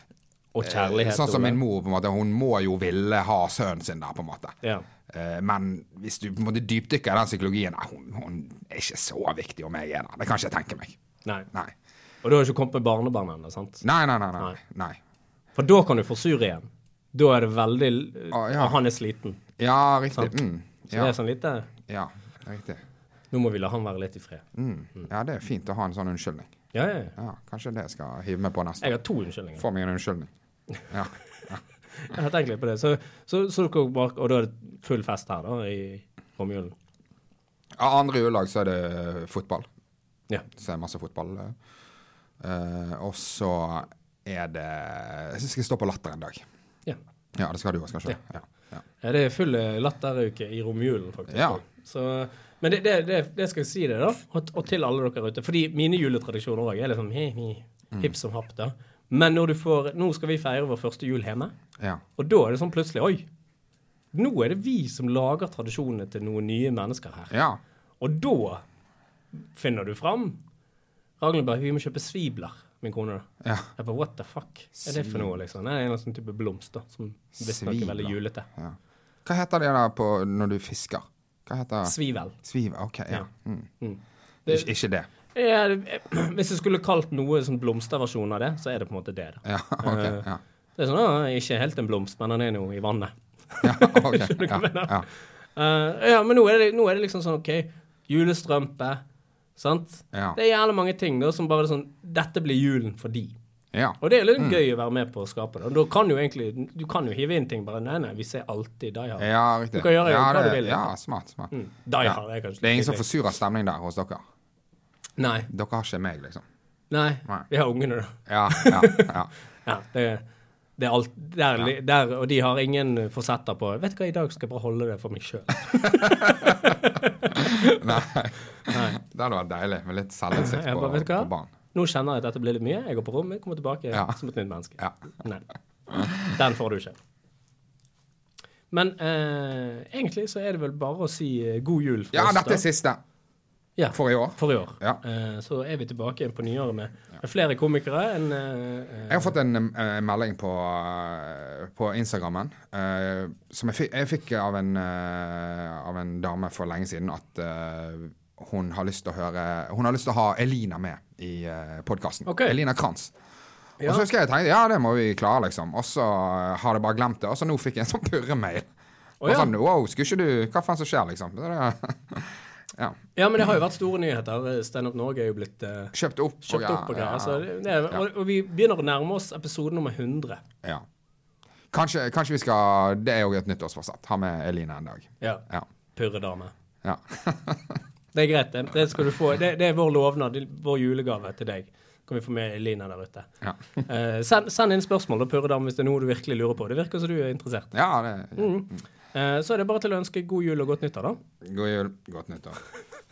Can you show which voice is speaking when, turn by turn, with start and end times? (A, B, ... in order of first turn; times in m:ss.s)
0:00.5-0:01.6 A
0:00.6-0:04.5 B
0:05.1-0:11.0 B
0:12.2-0:13.8 A
0:13.8-0:15.0 B
0:15.6-0:19.4 A
0:18.3-0:18.8 B
0:19.6-0:21.1 B
0:20.1-0:20.4 A
0:20.9-0:21.7 A
0:21.9-0:22.8 B
0:23.3-0:24.4 A
0:24.5-0:26.5 B
0:26.7-0:27.2 A
0:27.2-0:29.0 B
0:28.8-0:29.6 A
0:29.6-0:30.3 B
0:30.9-0:31.6 B
0:32.0-0:36.7 A
0:37.8-0:39.7 B
0:40.5-0:41.5 B
0:42.4-0:46.4 B
0:47.4-0:48.8 B
0:49.0-1:01.5 A
0:51.3-0:51.6 B
1:02.2-1:03.3 A
1:04.1-1:07.3 A
1:07.3-1:07.6 B
1:08.0-1:08.6 A
1:09.3-1:10.4 A
1:11.2-1:18.5 A
1:13.4-1:13.7 B
1:14.8-1:15.3 B
1:17.4-1:23.7 B
1:21.8-1:22.4 A
1:23.8-1:24.7 A
1:24.4-1:25.1 B
1:25.3-1:30.2 A
1:29.4-1:30.4 B
1:30.8-1:39.0 A
1:33.6-1:35.0 B
1:39.6-1:43.4 A
1:40.1-1:40.4 B
1:43.7-1:44.6 B
1:44.0-1:50.8 A
1:49.2-1:51.5 B
1:51.5-1:53.0 A
1:52.0-1:54.2 B
1:55.2-1:55.5 A
1:55.5-1:56.4 B
1:56.9-1:59.1 A
1:58.3-1:59.3 B
1:59.6-2:00.2 A
2:00.8-2:08.0 A
2:05.8-2:06.7 B
2:07.3-2:11.5 B
2:08.6-2:09.0 A
2:10.3-2:15.4 A
2:13.9-2:14.2 B
2:15.9-2:16.3 B
2:16.3-2:17.0 A
2:18.7-2:22.6 A
2:22.1-2:23.0 B
2:23.8-2:29.3 A
2:23.9-2:25.0 B
2:29.1-2:43.1 B
2:42.2-2:42.6 A
2:43.8-2:44.0 A
2:43.8-2:48.6 B
2:49.2-2:49.5 A
2:49.2-2:52.9 B
2:53.2-3:00.4 A
2:55.9-2:58.0 B
3:01.7-3:05.6 B
3:05.9-3:06.5 A
3:06.8-3:07.8 B
3:08.1-3:13.3 A
3:13.8-3:17.7 A
3:17.7-3:18.8 B
3:18.4-3:21.2 A
3:21.4-3:22.6 B